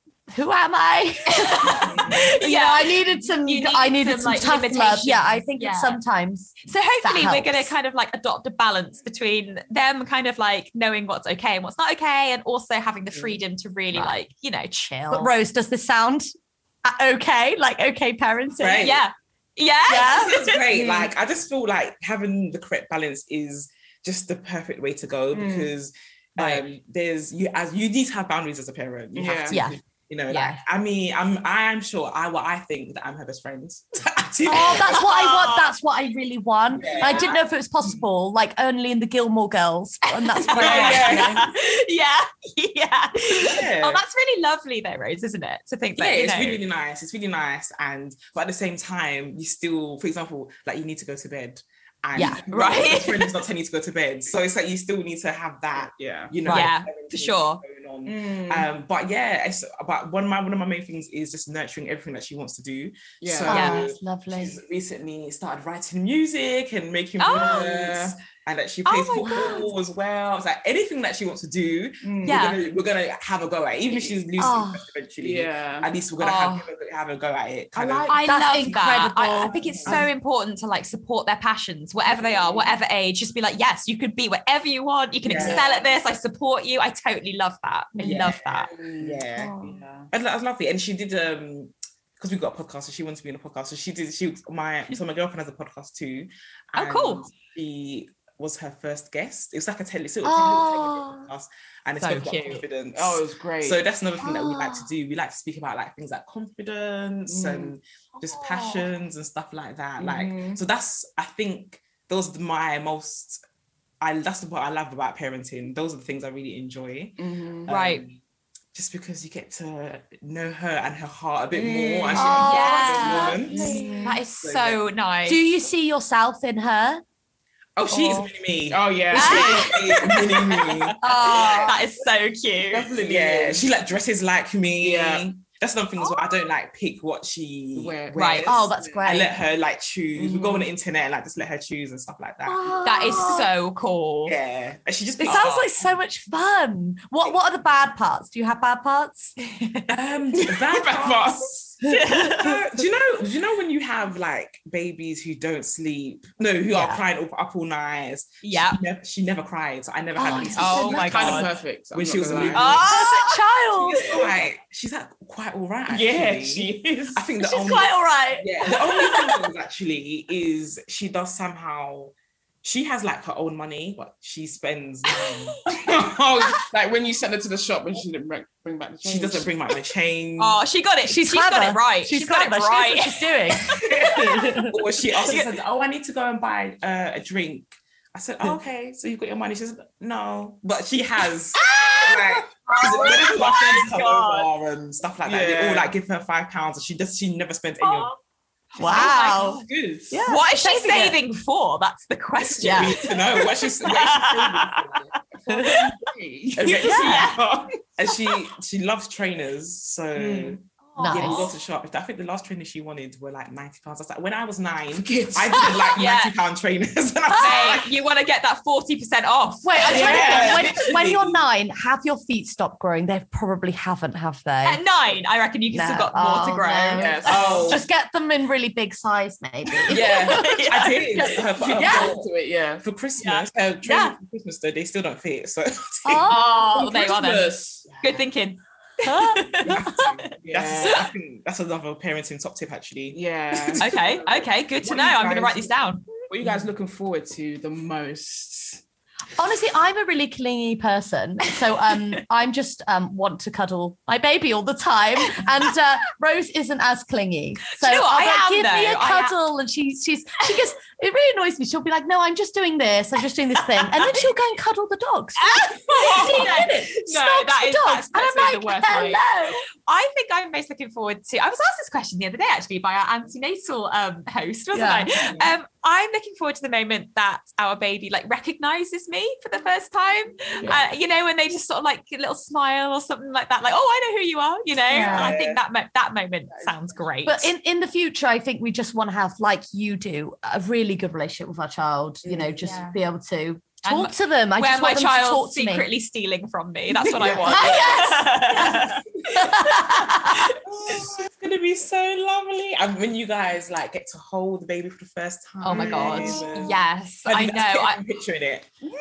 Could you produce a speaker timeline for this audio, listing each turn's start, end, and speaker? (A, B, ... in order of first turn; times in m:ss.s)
0:00.3-0:07.7 A
0:01.3-0:06.0 B
0:06.6-0:15.3 B
0:15.1-0:16.3 A
0:16.8-0:19.0 A
0:18.6-0:19.0 C
0:18.8-0:20.6 B
0:19.9-0:20.4 A
0:19.9-0:35.1 C
0:20.7-0:21.1 D
0:25.3-0:25.7 D
0:29.2-0:29.6 D
0:29.5-0:29.8 A
0:30.3-0:30.6 B
0:34.4-0:41.4 A
0:34.9-0:35.7 B
0:36.7-0:38.0 C
0:36.8-0:37.2 D
0:40.0-0:46.6 B
0:40.6-0:41.4 C
0:40.7-0:41.3 D
0:43.4-0:44.0 C
0:46.0-1:18.1 C
0:52.3-0:53.3 B
0:55.8-0:56.3 D
0:56.5-0:57.6 B
0:58.1-0:58.7 D
1:03.2-1:03.9 D
1:03.5-1:04.6 A
1:03.5-1:03.8 B
1:07.2-1:07.7 B
1:07.3-1:08.2 D
1:08.9-1:09.7 B
1:09.2-1:09.7 A
1:12.0-1:12.5 D
1:12.3-1:12.6 B
1:14.4-1:14.8 A
1:15.2-1:15.9 D
1:16.2-1:16.7 B
1:17.8-1:18.3 D
1:18.1-1:28.7 B
1:18.2-1:19.6 A
1:19.3-1:20.1 D
1:22.1-1:22.7 D
1:25.2-1:25.6 C
1:25.3-1:25.9 D
1:28.0-1:28.3 A
1:28.0-1:28.4 C
1:28.3-1:30.1 D
1:29.0-1:53.4 C
1:29.4-1:29.8 A
1:36.8-1:37.3 B
1:40.2-1:41.3 A
1:42.0-1:42.6 B
1:43.0-1:43.8 D
1:44.2-1:44.9 A
1:47.3-1:47.7 D
1:50.0-1:50.6 D
1:54.0-1:58.2 C
1:57.2-1:57.7 D
1:57.7-1:58.0 B
1:58.7-2:04.8 C
2:01.5-2:04.2 D
2:02.1-2:04.2 A
2:02.4-2:03.4 B
2:04.0-2:05.4 B
2:05.3-2:07.0 A
2:07.8-2:11.5 C
2:07.9-2:08.3 A
2:08.7-2:10.7 D
2:09.1-2:09.7 A
2:09.1-2:12.9 B
2:11.0-2:11.8 A
2:11.3-2:11.8 D
2:12.7-2:13.7 D
2:13.0-2:22.8 C
2:14.8-2:15.3 D
2:16.0-2:16.4 B
2:17.8-2:19.1 D
2:18.1-2:18.5 B
2:18.5-2:19.3 A
2:20.2-2:20.7 D
2:22.4-2:23.5 A
2:22.8-2:24.4 B
2:24.3-2:25.8 C
2:25.2-2:29.3 A
2:29.4-2:29.9 B
2:29.9-2:31.6 C
2:30.4-2:31.8 D
2:31.8-2:32.5 A
2:31.9-2:32.6 B
2:32.1-2:42.9 C
2:36.7-2:37.0 A
2:38.4-2:38.8 B
2:40.2-2:41.4 A
2:40.5-2:41.5 B
2:40.5-2:42.8 D
2:42.5-2:44.2 A
2:42.5-2:43.4 B
2:43.8-2:52.1 C
2:45.9-2:47.2 D
2:47.4-2:49.3 A
2:52.6-2:55.6 C
2:55.8-2:59.5 D
2:59.0-3:00.6 C
3:00.4-3:04.5 B
3:01.0-3:04.8 A
3:03.8-3:18.1 C
3:05.2-3:05.5 B
3:11.6-3:14.5 B
3:15.2-3:15.9 D
3:17.8-3:18.2 B
3:18.7-3:20.2 D
3:18.8-3:21.2 A
3:18.8-3:19.5 B
3:20.2-3:23.1 B
3:22.4-3:25.1 C
3:22.6-3:23.1 A
3:23.8-3:25.2 B
3:25.3-3:27.6 D
3:25.5-3:25.8 A
3:26.6-3:37.9 C
3:26.9-3:27.3 A
3:26.9-3:27.3 B
3:30.2-3:30.6 D
3:30.9-3:31.5 B
3:31.0-3:31.5 A
3:34.9-3:36.0 D
3:36.0-3:36.4 B
3:37.4-3:40.8 B
3:39.6-3:44.8 A
3:39.8-3:41.4 C
3:39.8-3:40.6 D
3:44.6-3:47.6 B
3:45.7-3:50.6 A
3:47.0-3:47.8 D
3:47.3-3:47.8 C
3:49.9-3:52.3 C
3:49.9-3:51.3 B
3:51.2-3:52.1 A
3:51.5-3:52.8 D
3:52.8-3:56.3 C
3:53.2-3:53.9 B
3:56.0-3:56.8 A
3:56.3-4:00.3 B
3:56.3-3:58.2 D
3:59.0-4:00.0 A
3:59.6-4:05.7 C
4:00.3-4:01.1 D
4:03.1-4:03.9 D
4:03.8-4:06.1 B
4:06.3-4:08.8 D
4:09.4-4:29.6 A
4:17.7-4:19.4 B
4:23.8-4:24.4 B
4:25.4-4:29.2 B
4:26.1-4:26.6 D
4:29.9-4:47.5 B
4:34.7-4:35.2 A
4:44.9-4:45.4 A
4:44.9-4:45.6 C
4:45.1-4:45.4 D
4:46.5-4:47.0 D
4:47.2-4:55.9 A
4:52.6-4:53.0 B
4:53.8-5:00.6 B
4:57.2-4:57.8 D
4:57.4-5:00.5 A
5:00.6-5:08.7 C
5:05.6-5:08.0 B
5:05.7-5:06.5 D
5:05.8-5:06.3 A